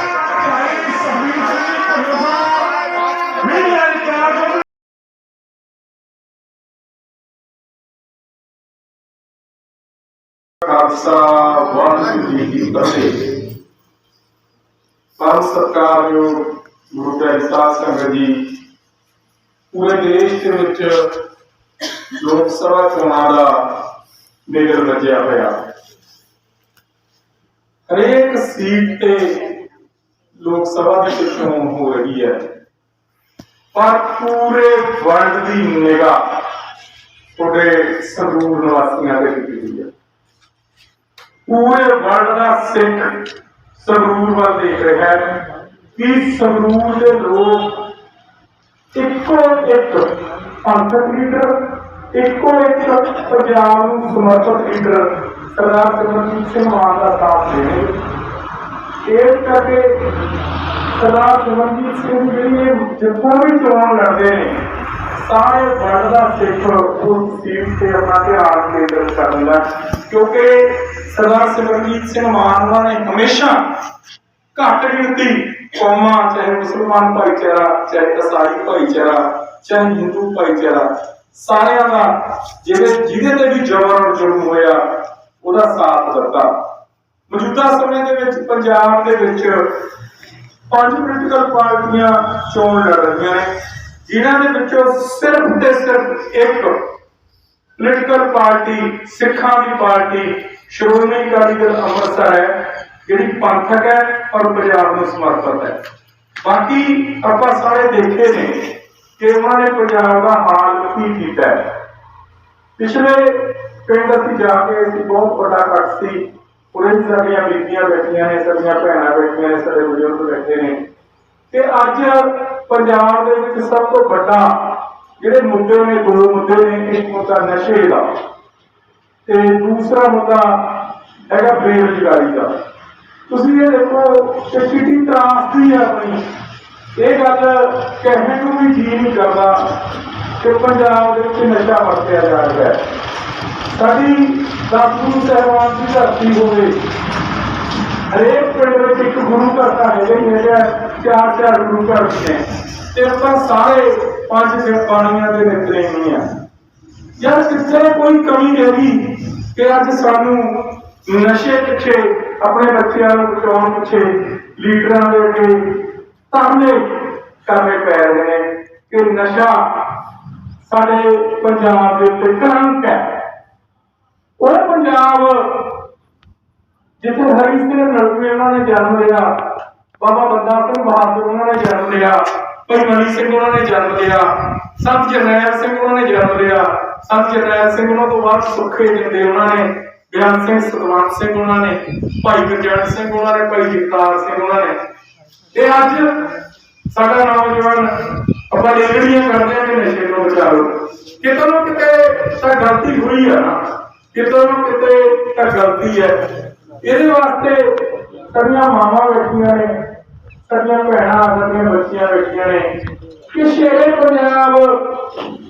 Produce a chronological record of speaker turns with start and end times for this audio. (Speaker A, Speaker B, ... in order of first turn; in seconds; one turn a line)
Speaker A: 0.2-2.7
Speaker A: 3.4-4.6
Speaker A: 10.6-13.4
Speaker A: 15.2-18.5
Speaker A: 19.7-21.2
Speaker A: 22.1-23.8
Speaker A: 24.5-25.6
Speaker A: 27.9-29.5
Speaker A: 30.4-32.5
Speaker A: 33.7-36.4
Speaker A: 37.4-39.9
Speaker A: 41.5-45.4
Speaker A: 45.9-47.9
Speaker A: 48.9-50.1
Speaker A: 50.6-58.0
Speaker A: 59.0-60.1
Speaker A: 60.9-64.6
Speaker A: 65.2-73.6
Speaker A: 74.5-86.5
Speaker A: 87.3-89.7
Speaker A: 90.7-93.5
Speaker A: 94.0-96.8
Speaker A: 97.8-105.8
Speaker A: 106.4-111.7
Speaker A: 112.8-120.8
Speaker A: 121.5-128.1
Speaker A: 129.2-132.5
Speaker A: 133.3-136.2
Speaker A: 136.9-139.8
Speaker A: 140.4-142.8
Speaker A: 143.7-146.8
Speaker A: 148.1-156.2
Speaker A: 157.2-169.9
Speaker A: 170.6-173.1
Speaker A: 174.4-175.8
Speaker A: 177.0-179.3
Speaker A: 180.0-194.8
Speaker A: 195.5-196.2
Speaker A: 196.9-206.3
Speaker A: 206.8-209.8
Speaker A: 210.4-212.7
Speaker A: 213.3-215.2